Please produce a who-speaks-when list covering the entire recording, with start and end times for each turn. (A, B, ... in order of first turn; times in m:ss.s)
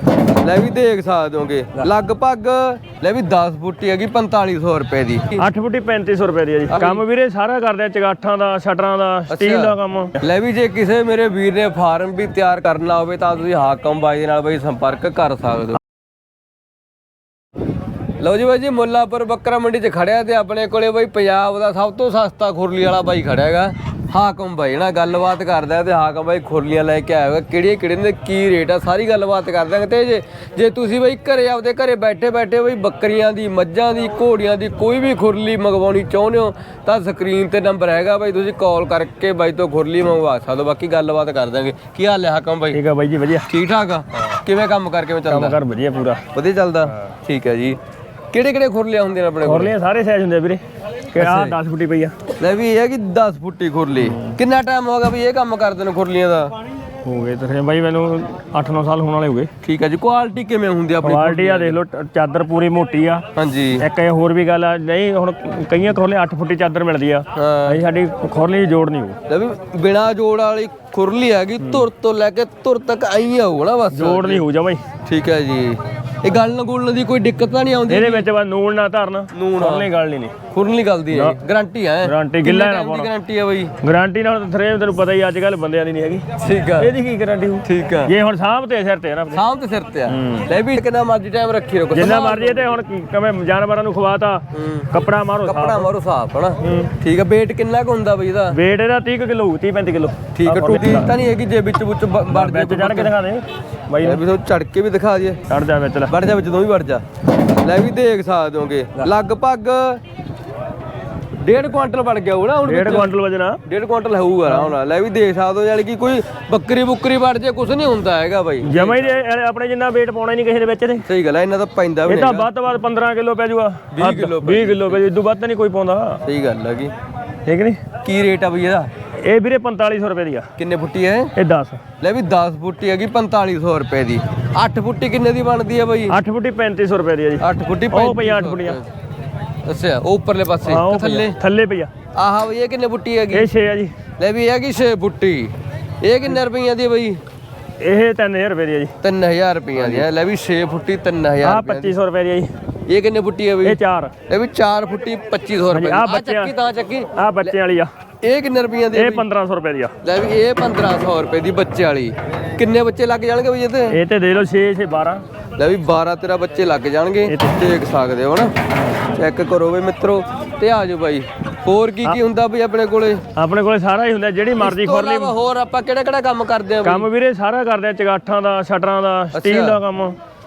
0:00.4-0:05.4 A
0:05.4-0:10.2 B
0:06.7-0:07.0 A
0:09.3-0:15.8 A
0:18.2-0:42.8 A
0:42.7-0:43.5 B
0:43.5-0:45.6 A
0:45.3-0:46.2 B
0:46.3-0:47.8 A
0:48.3-0:49.7 A
0:49.4-0:52.2 B
0:51.2-0:51.6 A
0:52.4-0:56.5 A
0:54.0-0:54.4 B
0:57.0-0:59.5 B
0:59.6-1:01.8 A
1:01.0-1:03.2 B
1:03.4-1:03.8 A
1:03.8-1:09.2 B
1:07.3-1:07.8 A
1:09.3-1:14.4 A
1:13.9-1:14.8 B
1:15.0-1:18.3 A
1:17.9-1:20.3 B
1:19.3-1:19.9 A
1:20.5-1:23.7 A
1:21.1-1:21.4 B
1:22.0-1:23.1 B
1:23.8-1:26.2 B
1:26.4-1:26.9 A
1:26.8-1:29.4 B
1:27.6-1:28.1 A
1:29.3-1:32.8 A
1:30.1-1:30.5 B
1:31.9-1:35.9 B
1:34.5-1:34.9 A
1:35.4-1:38.6 A
1:36.6-1:36.9 B
1:38.5-1:41.1 B
1:40.3-1:43.1 A
1:42.3-1:44.2 B
1:44.0-1:45.4 A
1:45.5-1:46.1 B
1:46.1-1:47.0 A
1:47.6-1:50.0 A
1:51.4-1:53.1 A
1:52.6-1:53.6 B
1:53.6-1:59.2 A
1:58.6-2:01.0 B
2:01.0-2:02.5 A
2:02.0-2:06.2 B
2:03.9-2:05.0 A
2:06.2-2:06.9 A
2:07.4-2:07.8 B
2:08.0-2:08.9 A
2:09.2-2:10.5 B
2:10.6-2:11.3 A
2:11.4-2:11.8 B
2:12.0-2:16.1 A
2:16.1-2:18.8 B
2:17.4-2:18.8 A
2:19.6-2:21.4 A
2:20.6-2:21.9 B
2:22.1-2:23.5 A
2:23.3-2:23.9 B
2:24.2-2:27.2 A
2:27.8-2:28.9 B
2:29.0-2:31.9 A
2:31.4-2:32.5 B
2:32.9-2:37.6 A
2:33.6-2:34.1 B
2:35.7-2:36.5 B
2:37.2-2:37.9 B
2:38.2-2:39.2 A
2:38.9-2:39.9 B
2:40.0-2:44.0 A
2:43.9-2:45.2 B
2:45.6-2:53.2 A
2:47.3-2:47.6 B
2:53.3-2:55.3 B
2:54.6-2:57.1 A
2:56.8-3:00.1 B
2:59.3-2:59.8 A